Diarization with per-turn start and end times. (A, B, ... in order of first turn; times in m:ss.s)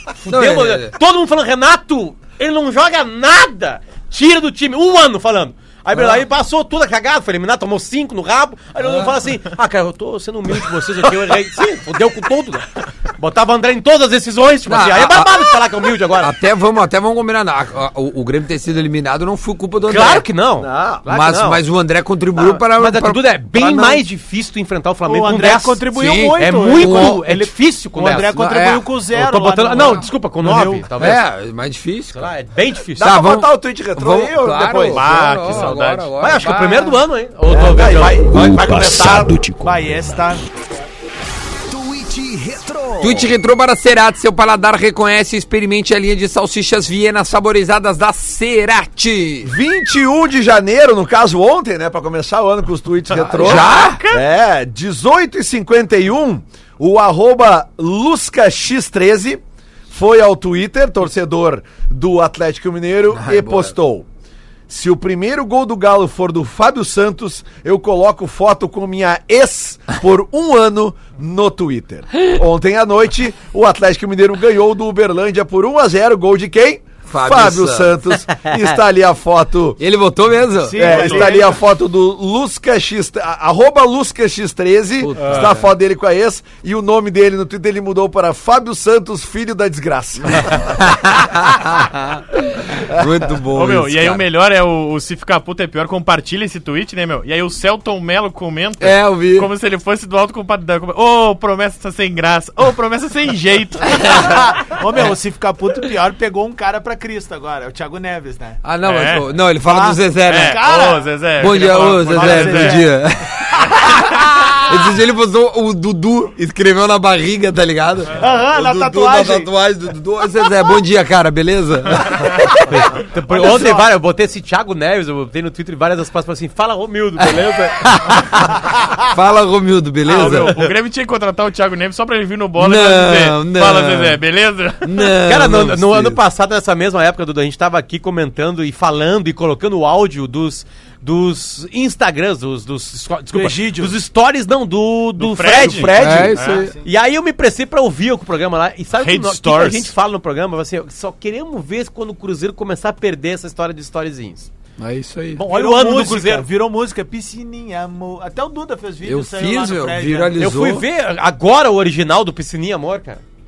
0:00.2-0:16.3 A
0:00.2-0:00.9 B
0:05.9-0:06.2 B
0:08.8-0:09.2 B
0:14.7-0:20.3 B
0:19.8-0:21.6 A
0:20.6-0:21.0 C
0:21.0-0:24.0 B
0:22.4-0:28.4 A
0:25.0-0:30.9 D
0:25.9-0:27.2 B
0:28.3-0:28.9 B
0:29.1-0:31.2 A
0:31.0-0:32.3 B
0:32.1-0:33.1 A
0:33.0-0:35.0 C
0:33.0-0:37.0 B
0:34.9-0:36.1 E
0:36.2-0:38.2 A
0:37.5-0:39.4 C
0:38.2-0:40.3 F
0:39.6-0:40.4 D
0:41.7-0:43.2 C
0:42.0-0:43.1 F
0:43.0-0:49.5 B
0:49.4-1:04.0 C
0:53.1-0:54.2 E
0:53.3-0:54.0 B
1:03.1-1:03.7 B
1:04.7-1:19.8 C
1:17.1-1:18.0 B
1:19.8-1:20.9 B
1:20.6-1:21.6 D
1:20.8-1:30.9 C
1:20.8-1:21.5 E
1:25.0-1:25.7 B
1:25.2-1:25.5 E
1:30.4-1:34.2 B
1:33.5-1:44.5 E
1:38.8-1:39.5 B
1:44.0-1:48.6 D
1:48.6-1:50.6 B
1:48.8-1:49.3 E
1:49.6-1:51.1 D
1:50.3-1:52.8 E
1:51.4-2:02.8 B
1:52.0-1:52.8 D
1:58.2-1:59.5 D
2:02.7-2:07.9 A
2:03.2-2:03.9 D
2:07.2-2:10.5 B
2:10.0-2:15.1 E
2:10.1-2:10.7 A
2:12.6-2:14.2 B
2:14.8-2:16.2 B
2:15.2-2:26.2 A
2:23.3-2:24.0 D
2:25.2-2:26.6 E
2:25.4-2:26.4 C
2:26.0-2:26.7 B
2:26.4-2:26.9 D
2:26.8-2:34.5 A
2:29.0-2:29.9 E
2:34.8-2:35.4 B
2:35.4-2:36.5 A
2:35.4-2:40.4 D
2:39.0-2:40.8 B
2:40.4-2:43.2 A